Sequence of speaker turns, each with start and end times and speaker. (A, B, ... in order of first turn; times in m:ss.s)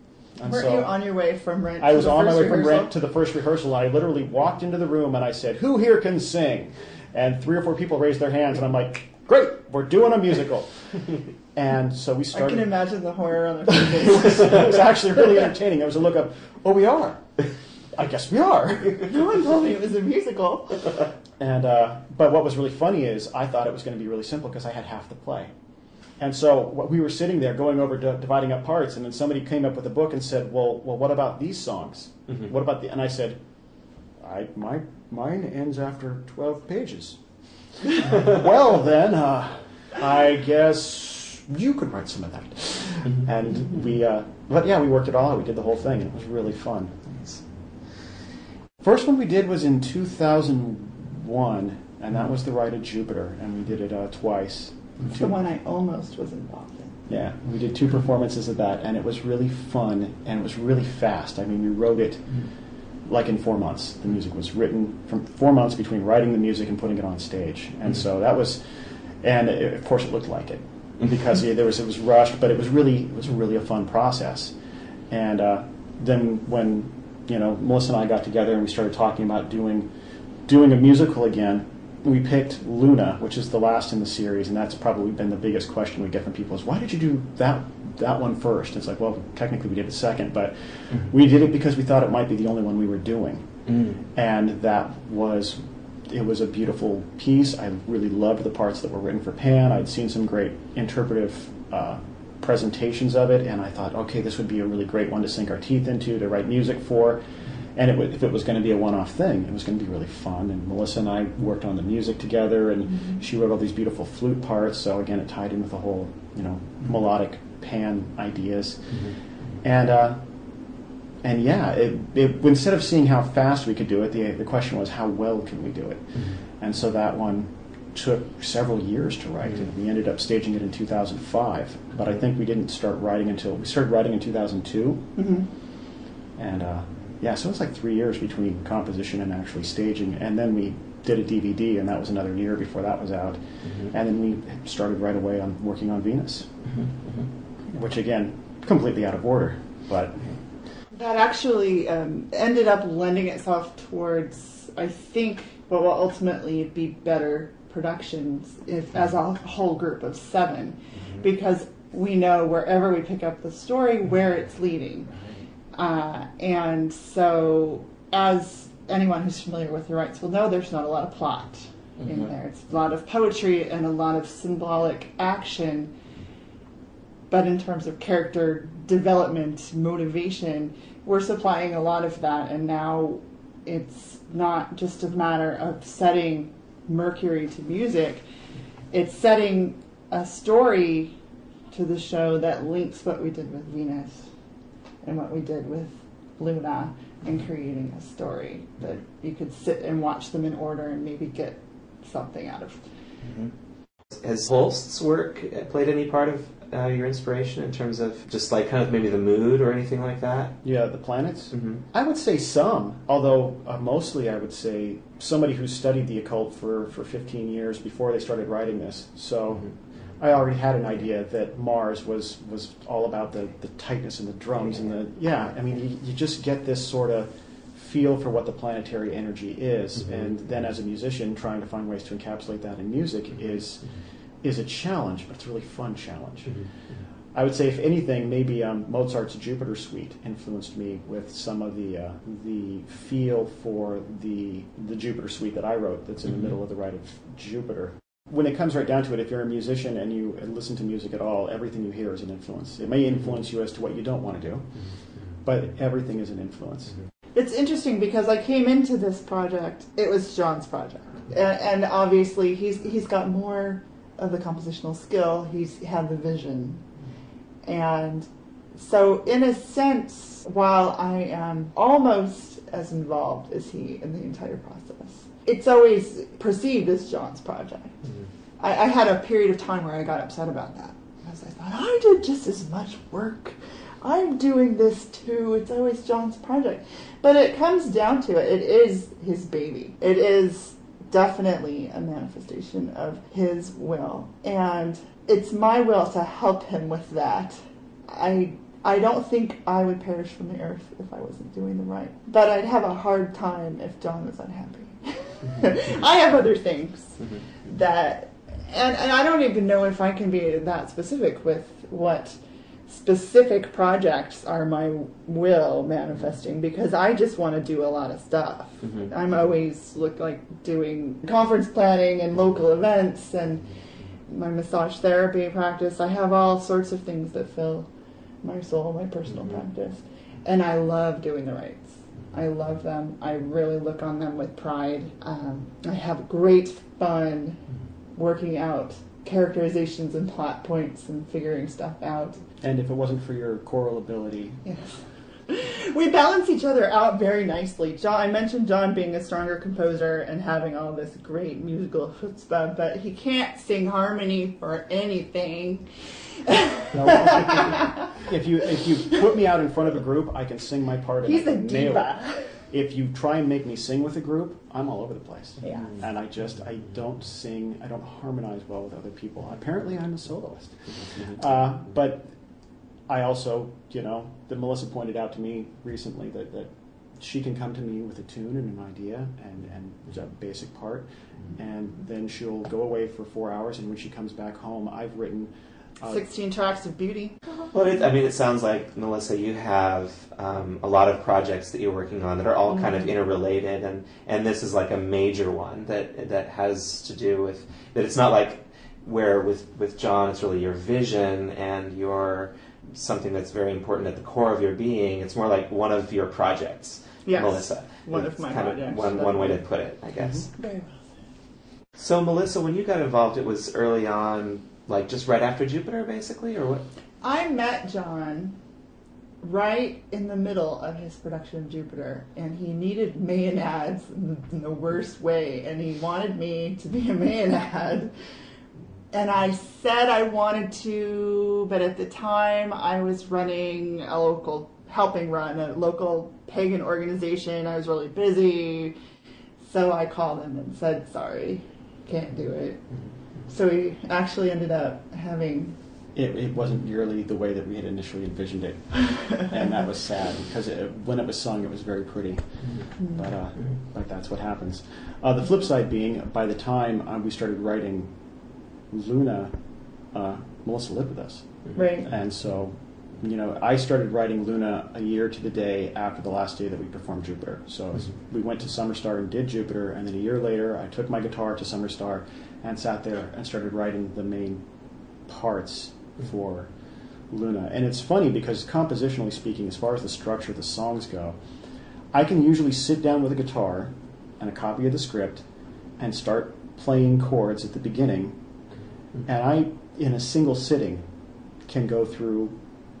0:00.4-0:00.9 A
0:00.4-0:02.9 B
0:01.8-0:12.8 A
0:12.3-0:14.8 B
0:13.8-0:19.3 A
0:19.0-0:21.0 B
0:21.4-0:25.5 A
0:26.2-0:33.4 A
0:34.2-0:37.2 A
0:37.8-0:47.1 A
0:48.8-0:55.3 A
0:55.1-0:57.0 B
0:57.1-1:02.5 A
1:03.0-1:14.5 A
1:15.1-1:19.9 A
1:20.5-2:00.3 A
1:33.7-1:34.0 C
1:58.9-1:59.2 C
2:01.2-2:15.2 A
2:15.2-2:15.5 B
2:16.4-2:26.6 A
2:26.7-2:27.1 C
2:27.7-2:30.3 A
2:30.9-2:45.1 B
2:45.7-2:55.9 B
2:52.0-2:52.2 C
2:57.3-3:08.2 B
3:08.9-3:11.2 B
3:11.7-3:14.3 B
3:15.0-3:22.8 B
3:23.2-3:23.5 C
3:24.1-3:30.6 C
3:30.6-3:56.6 A
3:31.5-3:31.8 C
3:56.5-3:57.0 C
3:57.3-4:17.0 A
4:17.3-4:26.8 B
4:27.6-4:38.0 B
4:38.6-5:23.7 B
5:18.8-5:19.1 C
5:24.3-5:27.9 B
5:28.4-5:37.6 B
5:38.1-5:42.4 B
5:42.6-5:44.6 A
5:44.6-5:58.2 B
5:56.9-6:12.4 A
6:01.2-6:02.6 B
6:05.6-6:05.9 B
6:05.6-6:06.0 C
6:11.0-6:11.4 C
6:13.1-6:26.2 A
6:26.0-6:27.4 B
6:27.7-6:50.5 C
6:32.7-6:33.0 B
6:47.2-6:49.6 B
6:50.2-6:50.5 A
6:50.6-6:51.1 B
6:52.0-6:56.8 C
6:57.2-6:58.6 B
6:59.4-7:08.1 B
7:09.1-7:19.0 B
7:19.6-7:22.9 B
7:23.5-7:25.8 B
7:26.1-7:38.2 A
7:32.6-7:32.9 C
7:38.9-7:39.6 A
7:40.1-7:54.6 A
7:41.7-7:42.1 B
7:55.2-7:56.7 A
7:57.3-8:01.4 A
8:02.1-8:05.4 A
8:06.0-8:08.4 A
8:09.2-8:11.1 A
8:11.6-8:12.6 A